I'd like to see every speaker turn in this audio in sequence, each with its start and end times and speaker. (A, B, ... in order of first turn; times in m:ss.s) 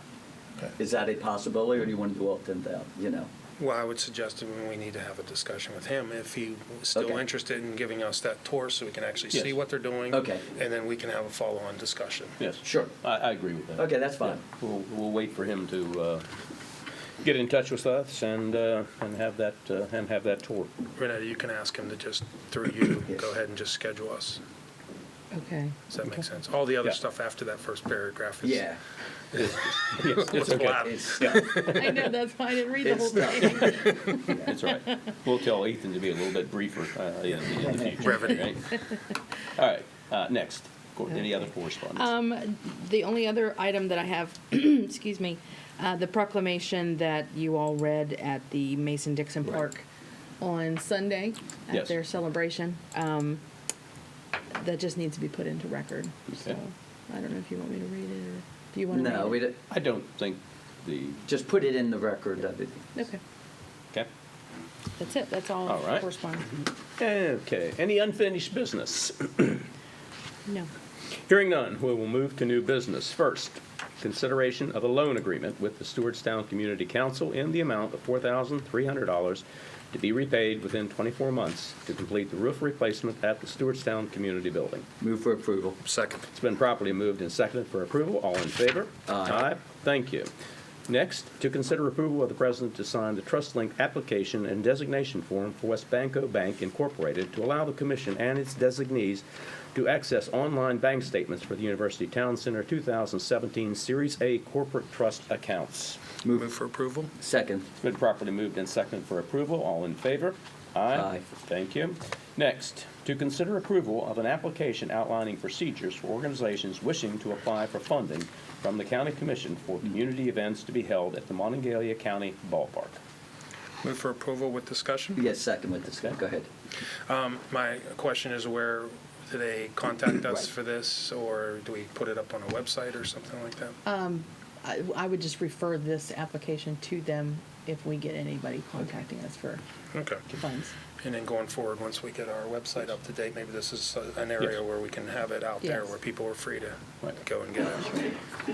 0:00.8-0:03.3 A
0:03.6-0:12.4 B
0:07.0-0:07.2 A
0:10.1-0:10.4 A
0:12.4-0:16.2 C
0:12.6-0:12.9 A
0:13.8-0:14.4 A
0:17.2-0:20.7 C
0:21.0-0:24.4 B
0:25.3-0:26.2 D
0:25.9-0:28.7 B
0:28.4-0:28.8 A
0:29.3-0:31.3 C
0:29.9-0:32.0 B
0:30.4-0:31.7 A
0:31.4-0:34.9 D
0:32.8-0:34.0 A
0:34.4-0:38.8 C
0:38.1-0:38.4 B
0:39.6-0:42.1 C
0:41.9-0:49.8 D
0:50.4-0:53.4 D
0:54.5-0:59.5 D
0:58.9-0:59.6 A
0:59.7-1:01.2 C
1:01.3-1:03.0 A
1:05.0-1:06.5 D
1:05.7-1:06.0 C
1:07.0-1:09.7 C
1:11.3-1:24.9 C
1:25.0-1:25.8 A
1:25.8-1:26.3 B
1:26.3-1:30.3 C
1:29.1-1:29.5 A
1:30.9-1:39.2 C
1:39.8-1:46.0 C
1:46.3-1:47.1 B
1:47.2-1:47.7 A
1:47.8-2:03.0 C
1:50.9-1:51.2 A
2:03.8-2:05.2 B
2:05.2-2:06.5 A
2:07.1-2:13.8 B
2:13.8-2:19.6 D
2:19.9-2:20.2 B
2:20.3-2:20.8 D
2:21.0-2:28.2 B
2:25.6-2:26.0 D